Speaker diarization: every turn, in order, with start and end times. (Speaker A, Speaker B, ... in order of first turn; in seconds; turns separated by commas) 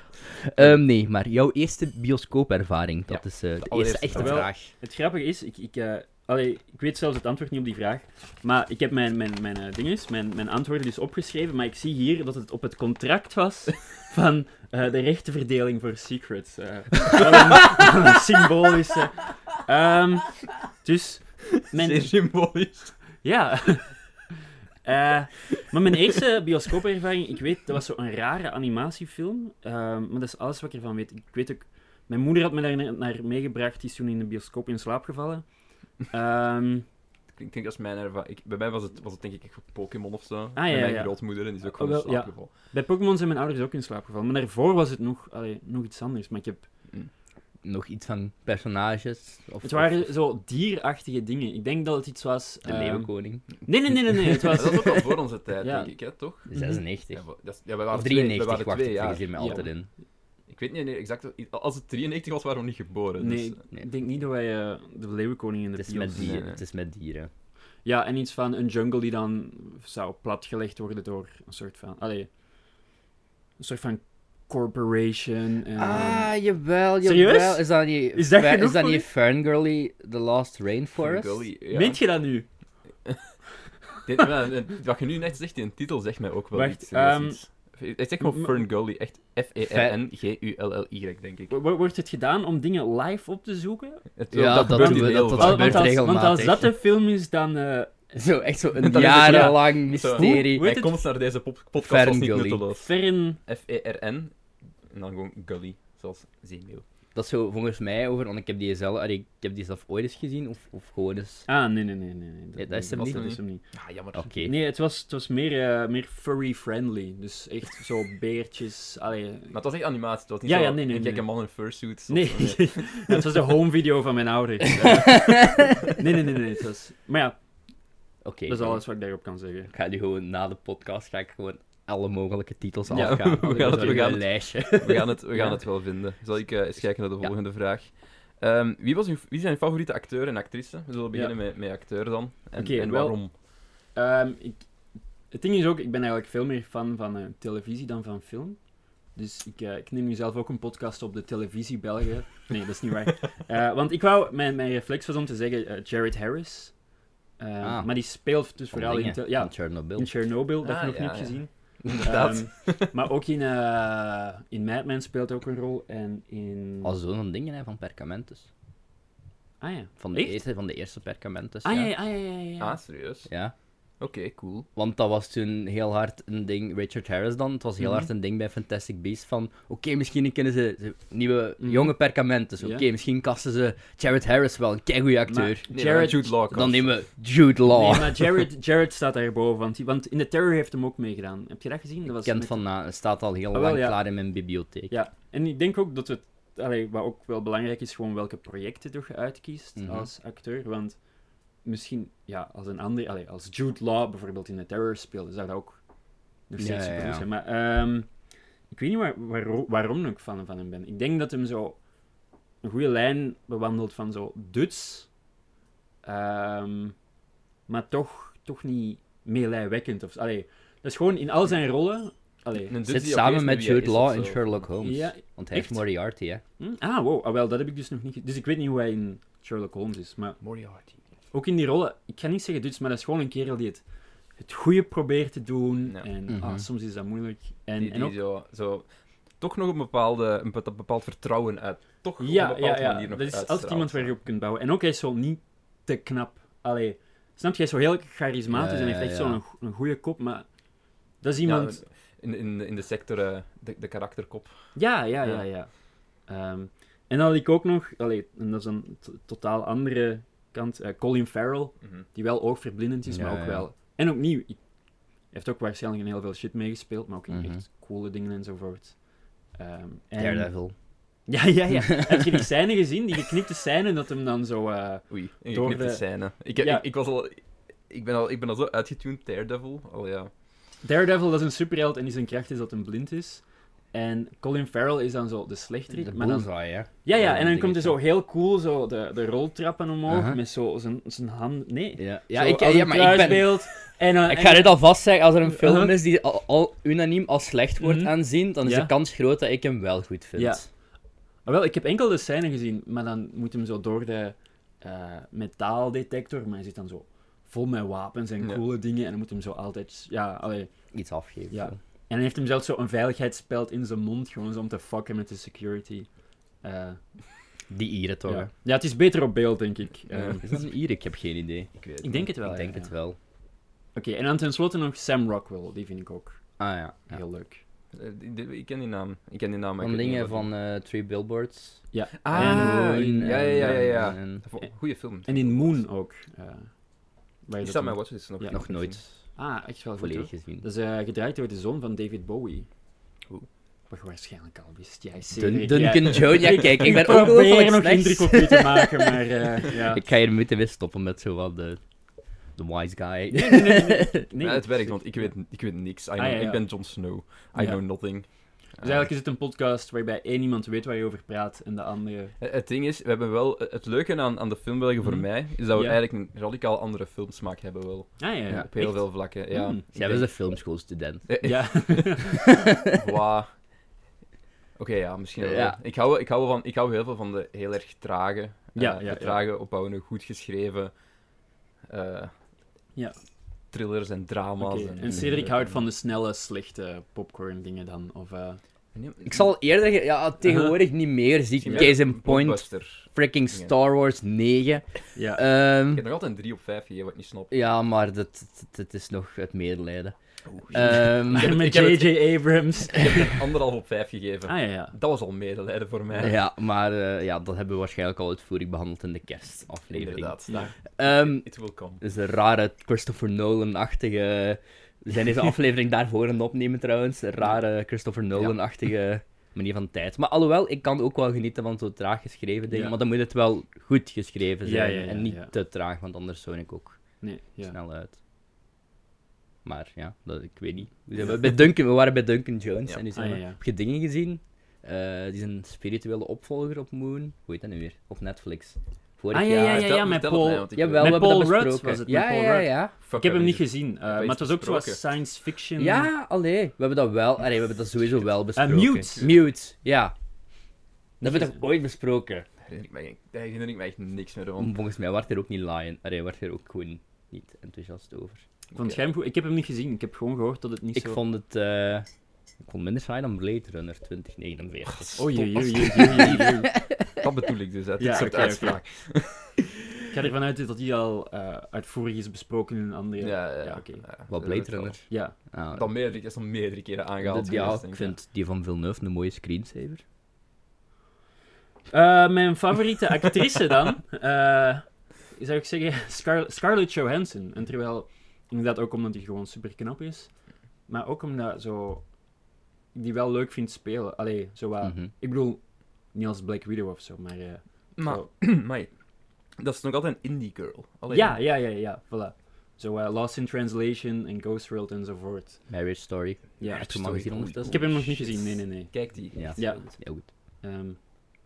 Speaker A: 0.5-4.7, Speaker B: 3.1-4.5, Speaker C: 4.1-22.1, Speaker B: 21.7-23.0, Speaker C: 23.2-24.0, Speaker C: 24.9-36.9, Speaker B: 37.3-42.5, Speaker C: 40.6-46.7, Speaker A: 47.6-50.1, Speaker C: 49.6-55.9, Speaker A: 52.6-53.5, Speaker B: 54.1-56.6, Speaker A: 56.5-59.9, Speaker C: 56.5-56.8, Speaker B: 57.1-59.7, Speaker C: 59.4-59.7, Speaker B: 60.5-63.6, Speaker C: 63.2-66.5, Speaker A: 65.8-67.3, Speaker B: 66.2-66.6, Speaker C: 67.8-72.3, Speaker C: 73.6-76.4, Speaker A: 75.8-81.5, Speaker C: 77.0-79.1, Speaker B: 81.0-82.1, Speaker C: 81.7-82.5, Speaker B: 84.0-91.6, Speaker C: 86.5-88.6, Speaker A: 89.6-90.0, Speaker C: 91.5-98.2, Speaker B: 94.2-96.0, Speaker A: 94.3-96.8, Speaker A: 98.2-100.7, Speaker B: 98.8-104.4, Speaker C: 98.8-101.0, Speaker A: 101.8-102.6, Speaker C: 102.8-103.4, Speaker B: 104.9-106.8, Speaker A: 107.2-111.5, Speaker C: 111.5-113.7, Speaker A: 112.6-113.4, Speaker B: 112.9-114.4, Speaker A: 114.1-114.5, Speaker C: 114.5-119.6, Speaker B: 119.5-123.2, Speaker C: 120.4-121.5, Speaker C: 122.1-127.4, Speaker A: 124.8-125.7, Speaker A: 128.2-128.8, Speaker C: 128.5-129.7, Speaker A: 129.7-135.1, Speaker C: 132.9-134.1, Speaker B: 132.9-143.4, Speaker C: 135.3-135.6, Speaker C: 142.6-144.7, Speaker C: 145.3-156.8, Speaker C: 157.4-166.9, Speaker A: 157.6-160.1, Speaker B: 160.6-162.9, Speaker A: 166.8-168.5, Speaker C: 169.6-170.4, Speaker A: 170.0-171.9, Speaker C: 171.6-172.8, Speaker B: 172.6-173.3, Speaker A: 173.3-173.5, Speaker B: 174.0-174.7, Speaker A: 174.8-188.3, Speaker C: 177.8-178.1, Speaker C: 181.6-182.0, Speaker C: 182.6-182.8, Speaker C: 185.3-186.4, Speaker B: 185.7-187.1, Speaker C: 187.7-192.8, Speaker A: 192.1-194.9, Speaker C: 193.5-194.1, Speaker C: 194.9-201.1, Speaker A: 199.8-200.1, Speaker C: 201.6-211.8, Speaker A: 206.6-207.2, Speaker C: 212.6-215.1, Speaker C: 216.0-217.0, Speaker C: 217.7-222.7, Speaker B: 222.7-224.7, Speaker A: 222.9-226.4, Speaker C: 224.8-225.9, Speaker C: 226.6-230.4, Speaker B: 230.4-231.0, Speaker C: 231.3-233.8, Speaker C: 234.4-238.2, Speaker A: 236.3-236.6, Speaker B: 237.8-244.2, Speaker C: 242.2-250.5, Speaker A: 248.5-249.4, Speaker C: 251.2-251.8, Speaker B: 251.4-255.4, Speaker C: 254.8-264.6, Speaker A: 263.1-263.7, Speaker C: 265.3-270.7, Speaker A: 267.3-267.6, Speaker A: 270.2-270.8, Speaker C: 271.3-276.9, Speaker A: 272.1-272.4, Speaker B: 275.1-280.3, Speaker C: 280.8-294.8, Speaker A: 285.9-288.0, Speaker A: 290.1-290.4, Speaker A: 292.0-300.7, Speaker C: 295.5-295.9, Speaker C: 297.8-298.9, Speaker C: 300.4-300.7, Speaker C: 301.4-310.7, Speaker A: 310.9-311.8, Speaker C: 311.5-317.0, Speaker A: 317.7-318.5, Speaker C: 318.3-320.5, Speaker B: 320.1-320.4, Speaker A: 320.4-321.7, Speaker B: 321.8-322.3, Speaker C: 322.0-322.9, Speaker A: 322.3-323.2, Speaker C: 323.9-327.6, Speaker A: 326.6-327.2, Speaker B: 327.9-330.5, Speaker A: 329.8-334.4, Speaker C: 331.9-332.9, Speaker B: 332.2-335.8, Speaker C: 334.6-336.8, Speaker C: 337.4-338.6, Speaker B: 337.6-339.0, Speaker A: 338.5-339.3, Speaker C: 339.2-342.7, Speaker A: 340.0-340.7, Speaker C: 343.9-350.0, Speaker A: 345.3-349.2, Speaker A: 349.9-351.8, Speaker A: 352.6-354.2, Speaker C: 353.3-355.4, Speaker B: 354.4-359.1, Speaker C: 356.2-362.3, Speaker B: 362.4-370.6, Speaker C: 365.0-366.0, Speaker C: 368.2-369.8, Speaker A: 368.5-369.3, Speaker A: 369.9-371.9, Speaker B: 371.3-373.7, Speaker C: 371.4-372.4, Speaker B: 374.8-380.9, Speaker A: 375.4-375.8, Speaker C: 378.8-379.4, Speaker B: 381.9-382.3, Speaker B: 383.7-385.9, Speaker C: 384.6-388.6, Speaker B: 388.9-389.5, Speaker A: 389.3-396.1, Speaker C: 390.4-390.7, Speaker B: 391.6-393.7, Speaker C: 395.1-395.4, Speaker B: 395.9-397.6, Speaker A: 397.5-400.1, Speaker B: 400.5-406.4, Speaker A: 400.7-401.6, Speaker C: 401.3-403.4, Speaker C: 404.5-404.9, Speaker A: 406.2-410.4, Speaker B: 409.9-412.0, Speaker A: 411.0-428.2, Speaker C: 422.7-423.0, Speaker C: 424.6-425.5, Speaker C: 427.2-427.8, Speaker A: 429.6-439.9, Speaker C: 433.1-433.6, Speaker C: 439.3-446.1, Speaker B: 439.7-441.3, Speaker A: 440.8-442.9, Speaker B: 443.1-445.0, Speaker A: 445.8-450.1, Speaker C: 448.6-449.3, Speaker A: 451.2-452.5, Speaker C: 451.2-451.6, Speaker B: 452.6-454.8, Speaker A: 454.6-458.4, Speaker B: 458.7-459.0, Speaker C: 458.8-461.2, Speaker A: 460.9-462.1, Speaker A: 462.6-467.2, Speaker B: 464.9-469.6, Speaker C: 465.2-466.7, Speaker C: 468.0-468.8, Speaker C: 470.1-474.0, Speaker B: 473.2-475.1, Speaker A: 474.3-475.9, Speaker C: 475.1-475.4, Speaker B: 475.7-478.2, Speaker A: 477.2-480.0, Speaker C: 481.9-492.2, Speaker C: 492.9-498.3, Speaker A: 494.8-495.1, Speaker B: 498.0-498.9, Speaker B: 499.5-501.4, Speaker C: 501.1-505.6, Speaker A: 505.7-507.9, Speaker B: 506.6-509.9, Speaker C: 506.6-506.9, Speaker C: 507.6-511.0, Speaker A: 509.3-510.3